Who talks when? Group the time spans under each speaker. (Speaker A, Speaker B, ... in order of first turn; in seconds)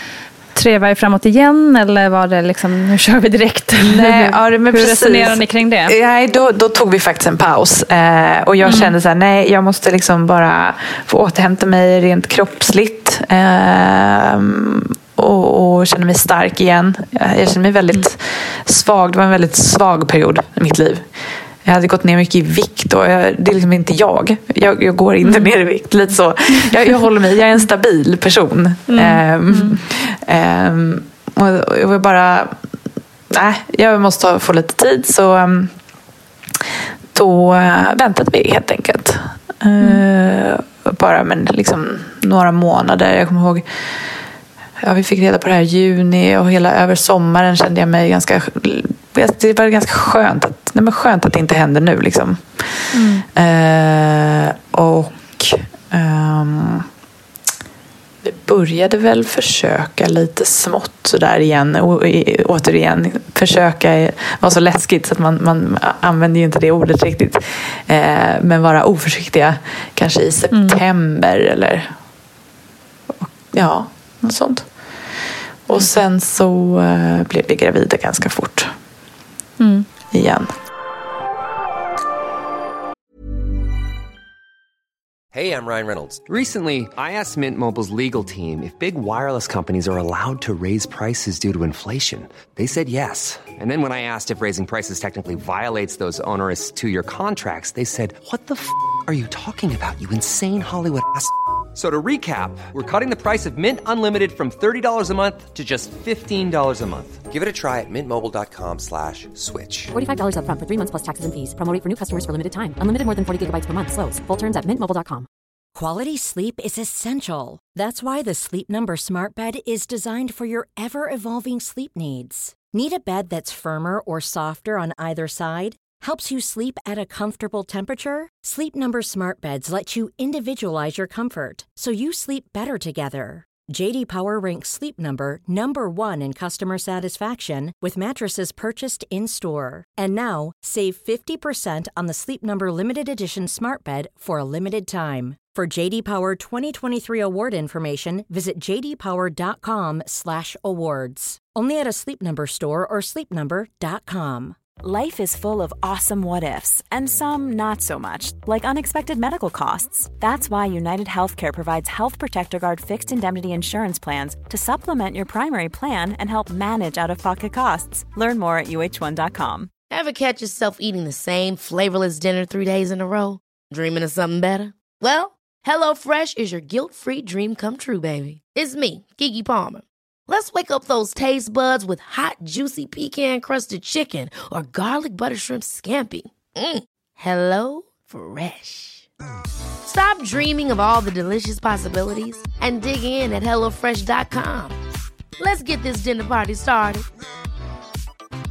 Speaker A: 0.5-5.9, 8.6-8.9, 25.2-25.5, 28.9-29.8, 52.9-53.2, 70.5-70.8, 79.6-79.8
Speaker B: 3.8-21.0, 21.6-32.5, 33.3-35.7, 37.1-43.6, 44.8-52.7, 53.3-56.9, 58.2-71.9, 73.2-74.7, 75.7-78.7, 80.1-80.5
Speaker C: 85.3-109.9
Speaker D: 109.9-115.3
Speaker E: 115.7-154.6
Speaker F: 154.8-169.7
Speaker G: 169.9-189.1, 189.8-194.8, 195.4-197.0